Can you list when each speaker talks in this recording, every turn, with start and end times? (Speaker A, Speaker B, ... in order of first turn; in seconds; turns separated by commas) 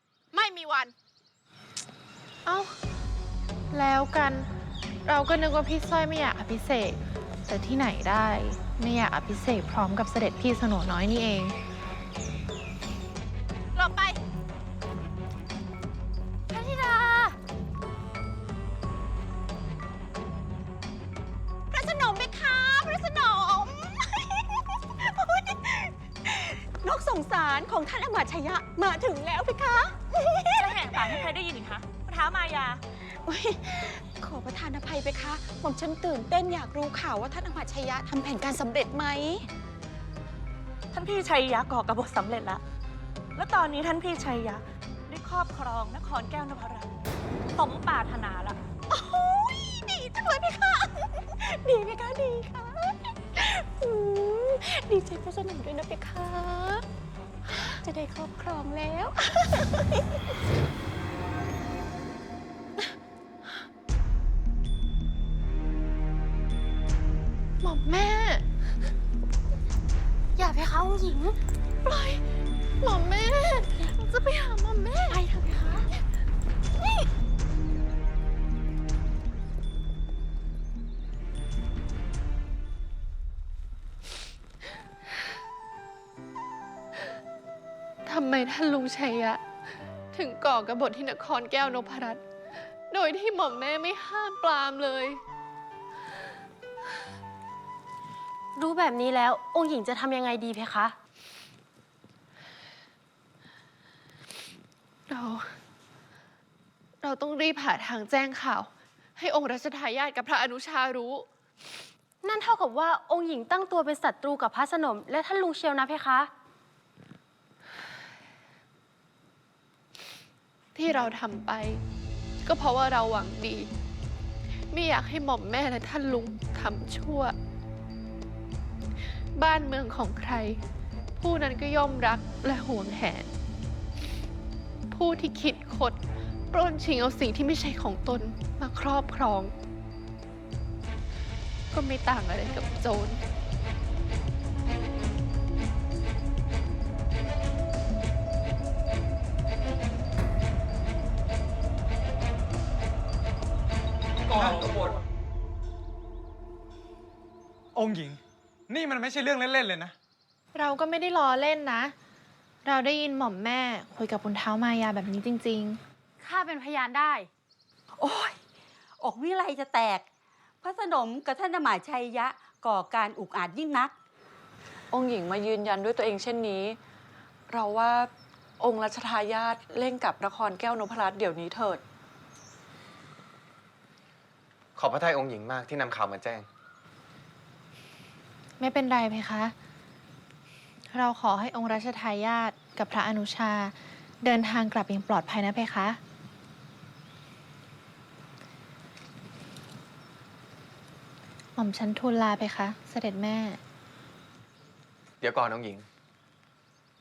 Speaker A: 0.3-0.9, Speaker A: 2.5-2.8, Speaker A: 3.7-4.5, Speaker A: 5.0-11.6, Speaker A: 13.8-14.2, Speaker B: 16.5-17.4, Speaker C: 21.7-31.3, Speaker D: 30.6-32.8, Speaker C: 33.0-39.5, Speaker D: 40.9-42.6, Speaker D: 43.4-46.9, Speaker D: 47.6-48.6, Speaker C: 48.9-56.9, Speaker C: 57.5-60.3, Speaker A: 67.6-68.5, Speaker B: 70.4-71.4, Speaker A: 71.8-72.2, Speaker A: 72.8-75.2, Speaker B: 75.1-75.9, Speaker A: 88.1-89.4, Speaker A: 90.1-92.2, Speaker A: 92.9-95.2, Speaker B: 98.6-101.0, Speaker A: 105.1-105.6, Speaker A: 107.0-111.3, Speaker B: 112.2-116.3, Speaker A: 120.8-121.8, Speaker A: 122.4-123.7, Speaker A: 124.7-127.3, Speaker A: 129.4-130.6, Speaker A: 131.2-133.3, Speaker A: 134.9-136.0, Speaker A: 136.5-139.5, Speaker A: 141.7-143.2, Speaker E: 154.3-154.7, Speaker E: 157.8-159.9, Speaker A: 160.5-161.9, Speaker A: 162.7-165.8, Speaker B: 166.2-167.3, Speaker F: 168.0-168.4, Speaker F: 169.0-170.1, Speaker F: 170.6-174.0, Speaker G: 174.9-176.8, Speaker G: 177.5-181.8, Speaker H: 184.8-186.5, Speaker A: 188.6-189.6, Speaker A: 190.9-196.0, Speaker A: 201.6-203.6, Speaker H: 205.2-205.9